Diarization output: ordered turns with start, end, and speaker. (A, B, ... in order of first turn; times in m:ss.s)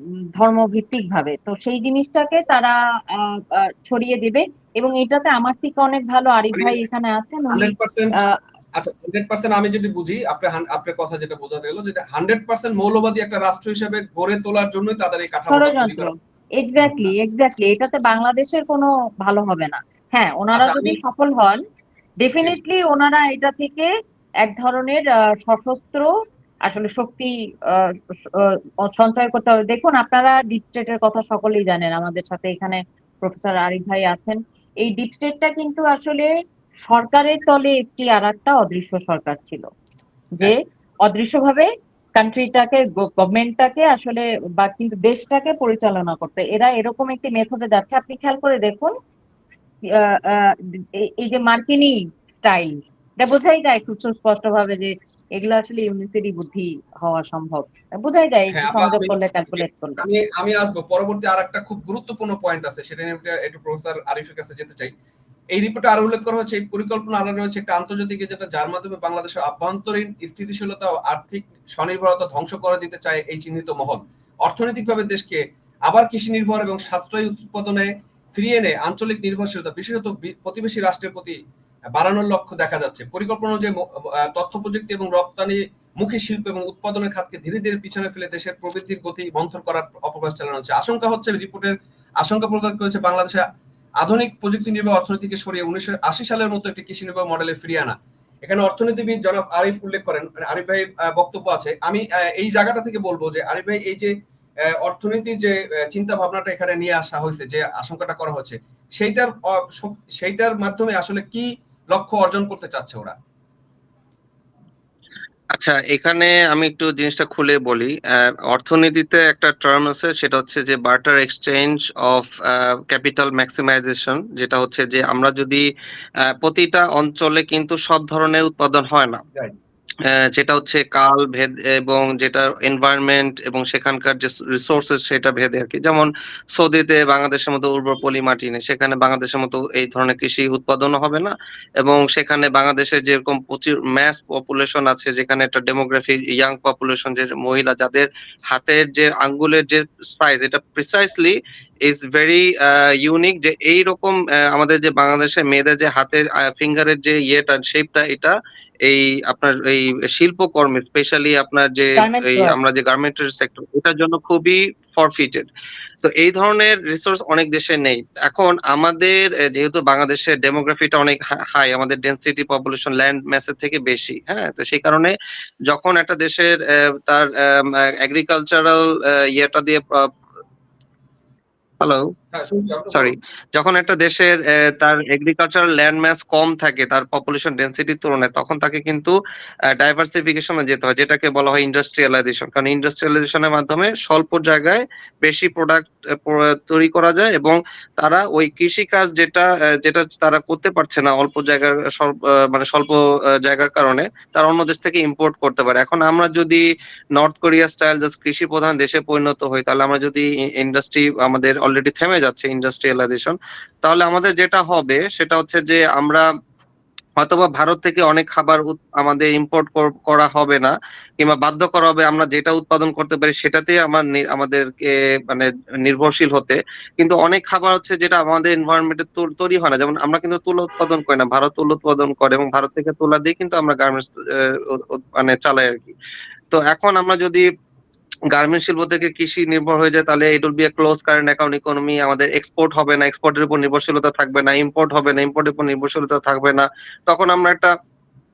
0:00.4-0:08.3 A
0:06.5-0:06.8 B
0:07.5-0:08.2 B
0:08.8-0:16.1 B
0:15.5-0:21.6 A
0:16.8-0:17.1 B
0:20.5-0:21.0 B
0:22.2-0:23.9 A
0:24.4-0:26.1 A
0:26.6-0:36.3 A
0:36.9-0:39.6 A
0:40.4-0:48.9 A
0:49.8-1:00.0 A
0:58.5-1:04.9 B
1:05.5-1:21.4 B
1:21.9-1:33.4 B
1:34.0-1:44.1 B
1:44.7-1:53.2 B
1:55.5-2:05.6 C
2:06.2-2:09.2 C
2:10.0-2:45.5 C
2:42.0-2:42.6 A
2:46.0-2:55.1 C
2:55.7-3:00.1 C
3:01.8-3:02.1 C
3:02.3-3:03.2 B
3:02.9-3:09.2 C
3:09.7-3:26.6 C
3:27.2-3:36.2 C
3:37.2-3:55.9 C
3:56.5-3:57.4 C
3:58.3-4:07.7 C